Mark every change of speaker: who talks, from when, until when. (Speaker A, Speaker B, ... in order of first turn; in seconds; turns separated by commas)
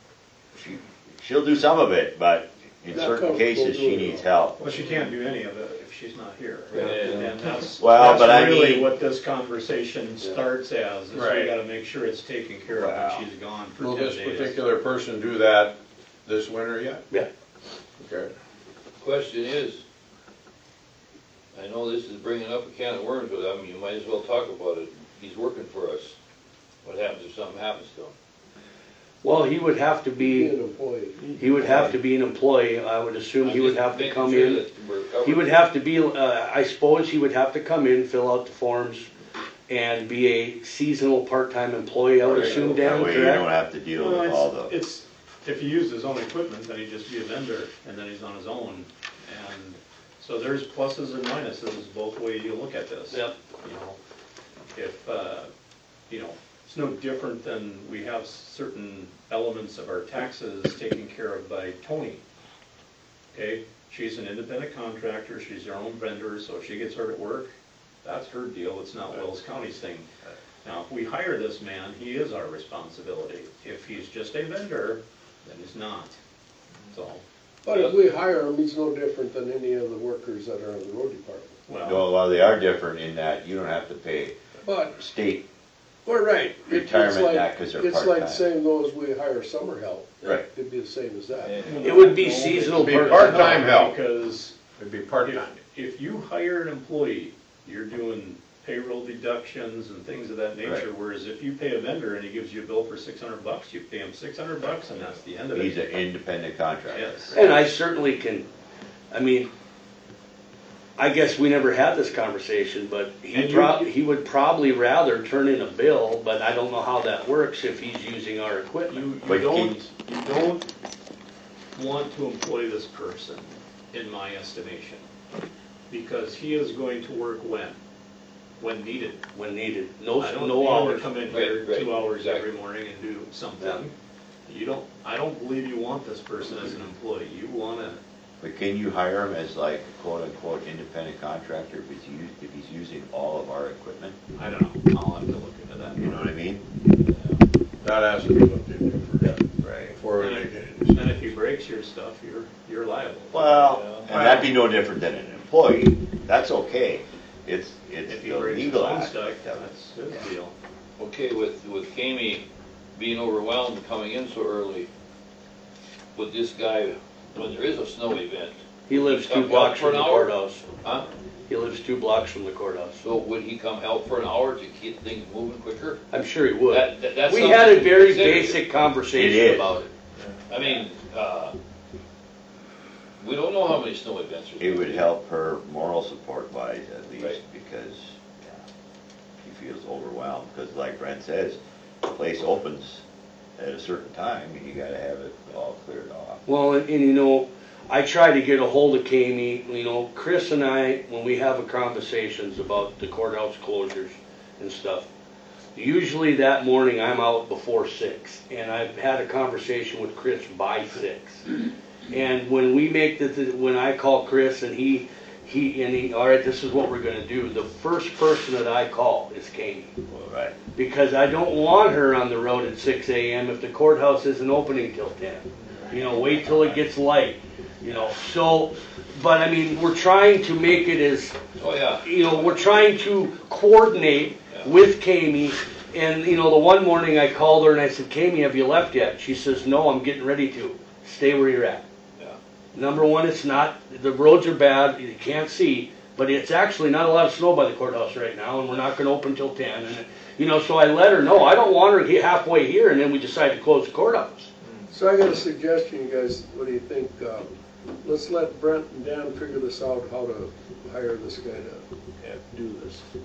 Speaker A: 0.5-4.6, Speaker B: 2.9-4.2, Speaker C: 4.6-14.6, Speaker D: 6.8-7.3, Speaker A: 7.8-8.9, Speaker E: 11.1-11.6, Speaker A: 12.7-13.3, Speaker E: 13.8-17.0, Speaker E: 18.0-18.3, Speaker D: 19.0-19.8, Speaker D: 21.5-26.2, Speaker D: 26.8-28.1, Speaker F: 29.2-30.6, Speaker B: 30.2-31.4, Speaker F: 31.4-34.7, Speaker D: 33.4-35.6, Speaker F: 35.2-39.1, Speaker F: 39.7-43.5, Speaker A: 42.3-44.7, Speaker C: 44.0-54.0, Speaker C: 54.8-55.5, Speaker C: 56.1-62.2, Speaker C: 63.3-67.5, Speaker C: 68.0-70.1, Speaker C: 70.6-76.2, Speaker C: 76.9-77.2, Speaker B: 77.7-81.6, Speaker D: 77.7-78.0, Speaker C: 81.7-82.1, Speaker A: 81.8-84.3, Speaker B: 84.6-84.9, Speaker A: 84.9-85.5, Speaker B: 86.1-91.7, Speaker A: 86.7-88.5, Speaker C: 91.6-94.6, Speaker F: 91.8-93.4, Speaker E: 92.7-94.0, Speaker E: 94.7-95.6, Speaker C: 95.2-105.8, Speaker A: 105.5-107.4, Speaker C: 106.9-107.5, Speaker F: 107.3-108.5, Speaker F: 109.1-109.5, Speaker F: 111.0-119.1, Speaker C: 113.3-113.9, Speaker C: 118.9-120.7, Speaker A: 119.2-119.8, Speaker C: 121.8-125.0, Speaker C: 125.9-127.8, Speaker C: 128.6-129.2, Speaker F: 129.3-131.2, Speaker C: 130.2-133.9, Speaker D: 131.3-132.5, Speaker C: 134.5-138.0, Speaker A: 138.4-144.2, Speaker C: 144.4-146.2, Speaker A: 146.0-146.6, Speaker D: 147.0-147.4, Speaker E: 147.8-151.3, Speaker A: 149.5-149.9, Speaker C: 150.2-153.5, Speaker A: 153.3-159.7, Speaker D: 153.6-154.1, Speaker E: 154.1-154.5, Speaker C: 158.1-160.5, Speaker D: 161.0-164.9, Speaker D: 166.2-171.1, Speaker F: 168.9-170.7, Speaker F: 171.5-173.0, Speaker D: 173.0-176.0, Speaker F: 176.1-179.9, Speaker D: 176.7-178.7, Speaker A: 179.1-179.8, Speaker D: 180.5-181.6, Speaker D: 183.2-185.1, Speaker A: 184.6-188.5, Speaker A: 189.4-193.0, Speaker A: 193.6-196.4, Speaker F: 196.5-205.1, Speaker F: 205.8-211.4, Speaker F: 212.1-219.9, Speaker A: 220.1-220.6, Speaker F: 220.7-231.4, Speaker D: 231.6-232.8, Speaker F: 232.0-241.8, Speaker F: 242.7-254.5, Speaker B: 254.9-263.0